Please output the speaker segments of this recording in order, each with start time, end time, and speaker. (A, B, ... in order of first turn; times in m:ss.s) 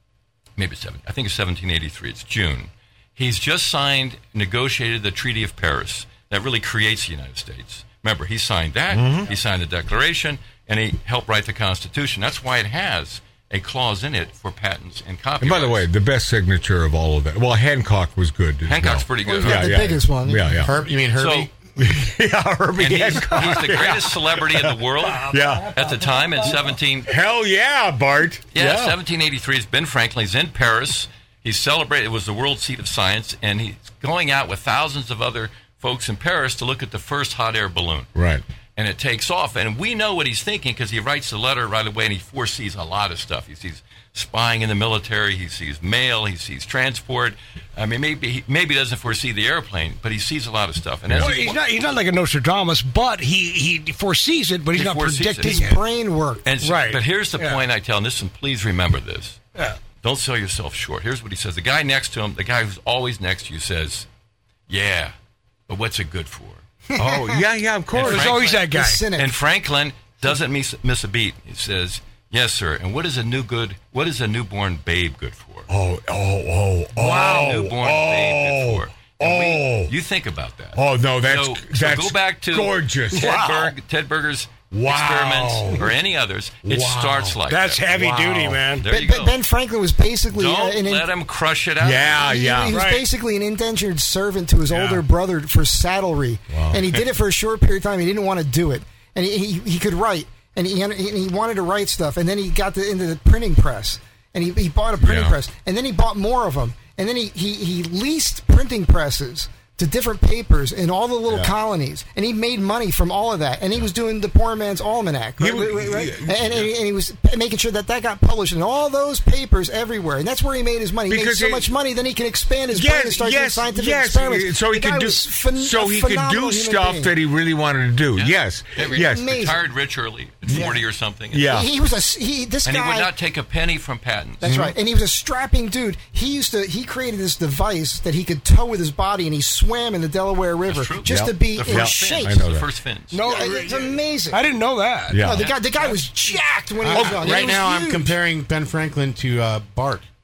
0:00.6-0:15.9 A
0:08.9-0:09.3 B
0:15.4-0:20.7 B
0:18.7-0:19.8 A
0:19.3-0:20.6 C
0:20.6-0:21.5 D
0:21.1-0:21.5 A
0:21.8-0:25.8 B
0:22.8-0:27.1 A
0:25.9-0:26.6 C
0:27.0-0:29.0 B
0:28.5-0:38.1 A
0:38.1-0:38.4 B
0:38.8-0:51.6 A
0:51.1-0:51.4 B
0:51.2-0:55.8 E
0:54.7-0:55.7 A
0:55.4-0:56.5 C
0:56.4-0:59.4 A
0:56.6-0:57.6 E
1:00.0-1:04.1 A
1:04.7-1:05.1 A
1:05.7-1:06.6 A
1:06.9-1:07.4 C
1:06.9-1:08.3 B
1:07.9-1:15.7 A
1:08.0-1:09.0 E
1:08.7-1:09.3 C
1:15.7-1:19.9 B
1:17.0-1:27.8 A
1:20.7-1:23.6 B
1:23.1-1:23.5 E
1:24.7-1:25.9 B
1:26.6-1:28.6 B
1:27.5-1:28.8 E
1:28.8-1:29.4 A
1:28.9-1:31.1 C
1:30.3-1:32.5 A
1:31.8-1:32.8 B
1:32.2-2:07.1 C
1:32.7-1:33.0 E
1:34.7-1:35.0 E
1:36.5-1:36.9 B
1:45.0-1:45.4 B
1:55.4-1:56.7 B
2:01.1-2:01.7 B
2:02.7-2:09.4 B
2:08.1-2:11.5 A
2:08.8-2:09.6 C
2:10.5-2:10.8 C
2:11.3-2:11.7 B
2:11.4-2:13.1 C
2:12.6-2:14.5 A
2:14.4-2:22.5 C
2:14.4-2:14.7 B
2:20.7-2:23.2 A
2:21.0-2:22.7 B
2:23.1-2:25.2 E
2:23.2-2:24.4 C
2:25.1-2:25.5 B
2:25.1-2:28.1 C
2:25.2-2:25.6 A
2:26.8-2:30.0 D
2:26.9-2:27.3 B